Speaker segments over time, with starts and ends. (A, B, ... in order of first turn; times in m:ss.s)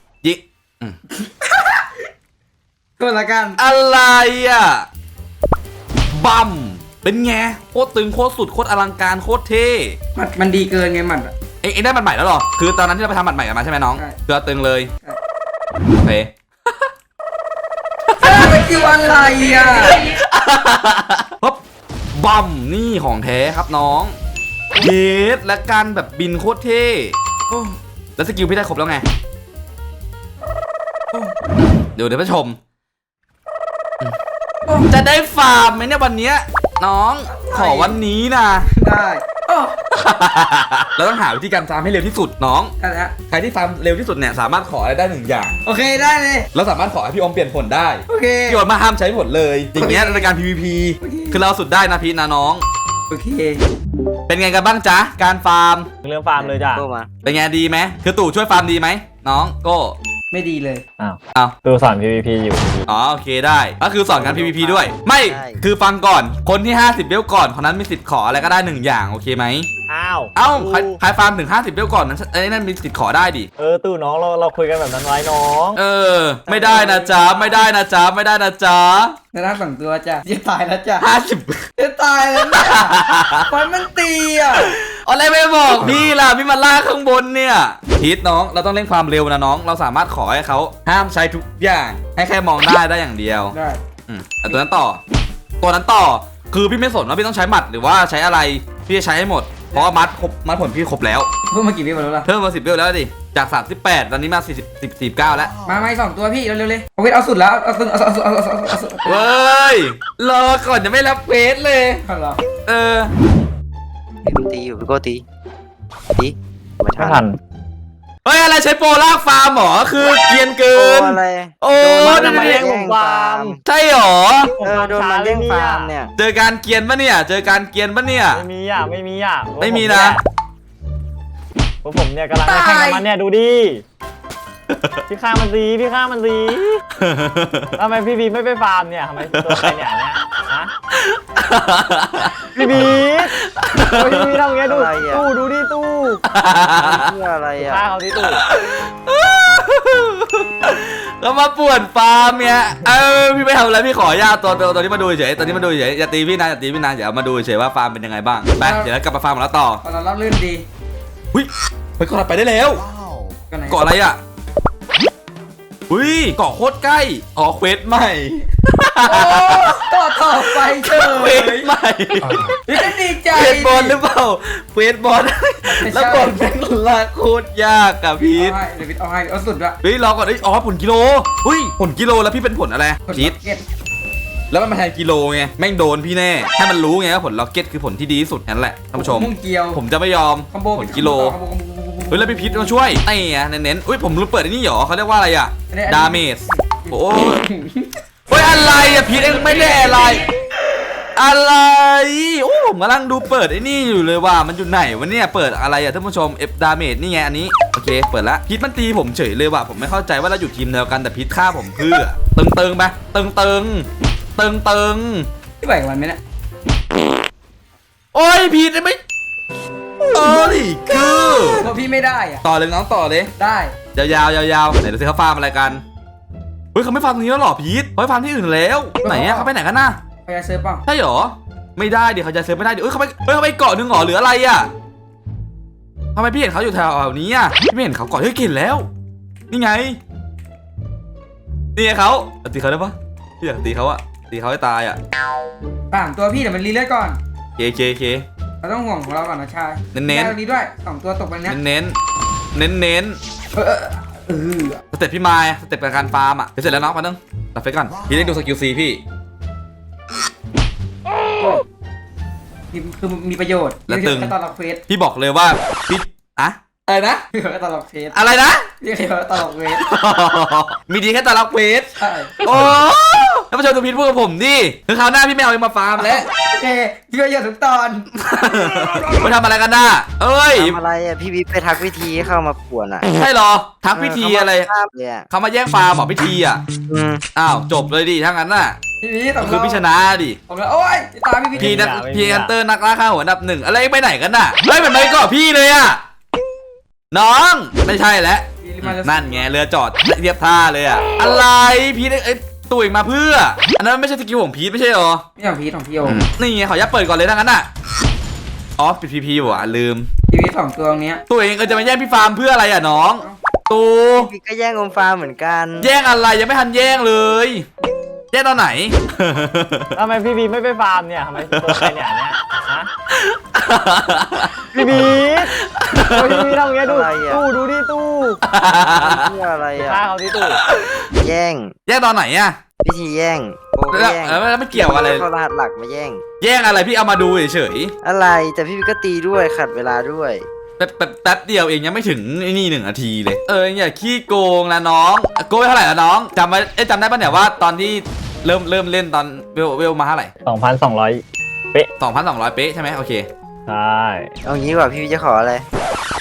0:00.2-0:01.0 A
0:01.1-0:01.9 B
0:03.0-0:03.6 B
0:03.6-0:04.9 A
0:06.1-0:10.0 A
0:10.1-0:11.3 B
0:11.6-0:14.9 A
0:15.9-0:16.3 A
0:18.1-0:18.5 A
0:18.2-0:20.0 B
0:19.8-0:21.6 A
0:22.1-0:24.2 A
0:24.7-0:27.2 A
0:27.5-0:27.8 B
0:28.2-0:29.0 A
0:31.9-0:32.6 A
0:34.9-0:38.7 A
0:37.3-0:38.0 B
0:38.7-0:39.8 B
0:39.9-0:42.7 A
0:42.8-0:43.1 B
0:43.3-0:45.6 A
0:45.6-0:46.5 B
0:46.5-0:52.6 A
0:48.1-0:48.6 B
0:49.7-0:50.3 B
0:51.0-0:51.4 B
0:53.1-0:53.6 B
0:54.3-0:55.9 A
0:56.0-0:56.8 C
0:56.4-0:57.1 D
0:57.2-1:00.0 A
1:00.3-1:00.8 B
1:01.0-1:02.8 C
1:02.9-1:09.7 A
1:04.1-1:05.6 D
1:09.9-1:11.0 C
1:10.3-1:13.5 A
1:13.6-1:15.8 C
1:15.7-1:19.2 A
1:16.5-1:17.6 B
1:19.3-1:21.1 B
1:21.0-1:21.6 A
1:21.8-1:24.7 B
1:22.4-1:23.5 A
1:24.5-1:33.5 A
1:33.5-1:33.8 B
1:34.1-1:35.0 A
1:35.6-1:41.3 A
1:39.7-1:40.0 B
1:41.5-1:42.3 B
1:42.2-1:45.5 A
1:45.6-1:49.2 B
1:49.0-1:52.0 A
1:52.0-1:52.4 B
1:52.6-1:53.1 A
1:54.2-1:55.2 D
1:56.1-1:57.2 D
1:57.0-1:57.4 C
1:58.2-2:02.7 A
2:00.7-2:03.6 D
2:02.0-2:03.6 C
2:03.6-2:04.5 A
2:04.6-2:05.9 C
2:04.6-2:06.1 D
2:06.2-2:08.4 A
2:08.3-2:10.2 C
2:09.6-2:10.2 A
2:11.8-2:13.8 C
2:12.4-2:13.0 B
2:14.7-2:15.0 A
2:15.1-2:16.8 C
2:17.0-2:17.7 A
2:17.7-2:20.7 C
2:19.3-2:19.7 A
2:21.0-2:24.3 A
2:22.5-2:23.3 C
2:23.9-2:26.2 C
2:24.6-2:25.3 D
2:26.3-2:27.1 A
2:26.8-2:27.8 D
2:27.6-2:28.4 C
2:28.2-2:39.8 A
2:38.6-2:38.9 B
2:39.8-2:40.6 B
2:41.3-2:42.8 A
2:43.5-2:43.8 B
2:43.7-2:44.2 A
2:45.9-2:49.7 A
2:49.0-2:51.7 B
2:50.3-2:52.6 A
2:52.6-2:54.0 B
2:53.3-2:58.6 A
2:55.6-2:56.3 B
2:58.2-2:59.8 B
2:59.8-3:03.3 A
3:03.0-3:03.6 B
3:04.5-3:11.3 A
3:08.9-3:09.8 B
3:10.5-3:12.8 B
3:12.1-3:17.5 A
3:15.7-3:20.3 B
3:18.3-3:20.2 A
3:21.1-3:35.3 A
3:35.6-3:36.2 B
3:38.1-3:39.0 A
3:40.0-3:41.7 A
3:41.6-3:42.4 B
3:42.4-3:43.3 A
3:43.4-3:43.8 B
3:43.9-3:45.8 A
3:46.7-3:50.0 A
3:49.0-3:49.5 B
3:50.2-3:50.8 B
3:50.8-3:54.7 A
3:56.1-3:58.9 A
3:59.5-4:00.0 A
4:01.8-4:05.0 A
4:05.9-4:07.2 B
4:07.6-4:08.2 A
4:08.6-4:11.6 B
4:09.9-4:10.4 A
4:11.4-4:12.0 A
4:12.5-4:13.2 A
4:13.5-4:14.8 B
4:14.9-4:19.0 A
4:22.7-4:24.8 B
4:23.9-4:24.3 A
4:24.9-4:27.2 A
4:27.3-4:28.2 B
4:28.1-4:28.7 A
4:28.8-4:29.8 B
4:29.8-4:31.9 A
4:32.0-4:32.4 B
4:32.4-4:36.3 A
4:36.0-4:38.0 B
4:38.2-4:40.8 A
4:40.5-4:43.1 D
4:43.1-4:44.7 A
4:43.9-4:45.3 D
4:45.3-4:46.6 A
4:46.9-4:47.2 D
4:47.3-4:48.8 A
4:49.0-4:49.8 B
4:49.4-4:50.4 A
4:50.5-4:51.9 B
4:51.5-4:52.5 C
4:51.6-4:56.0 A
4:57.1-5:05.2 A
4:58.6-4:59.5 B
5:05.4-5:06.3 B
5:06.0-5:07.7 A
5:08.8-5:10.1 A
5:10.3-5:11.2 B
5:11.3-5:14.3 A
5:14.1-5:15.9 D
5:15.8-5:17.6 A
5:18.3-5:19.9 A
5:20.0-5:22.9 C
5:21.5-5:22.0 A
5:23.1-5:26.5 A
5:24.7-5:25.5 C
5:26.1-5:28.4 C
5:26.8-5:27.4 D
5:28.4-5:29.3 A
5:28.8-5:30.0 D
5:29.8-5:30.6 C
5:30.6-5:30.9 A
5:31.2-5:31.7 D
5:31.8-5:32.6 A
5:32.8-5:36.2 D
5:33.9-5:35.2 A
5:36.4-5:37.9 A
5:38.0-5:40.4 D
5:40.8-5:50.3 A
5:50.4-5:51.9 C
5:52.0-5:53.3 A
5:53.7-5:54.3 C
5:54.4-5:55.6 D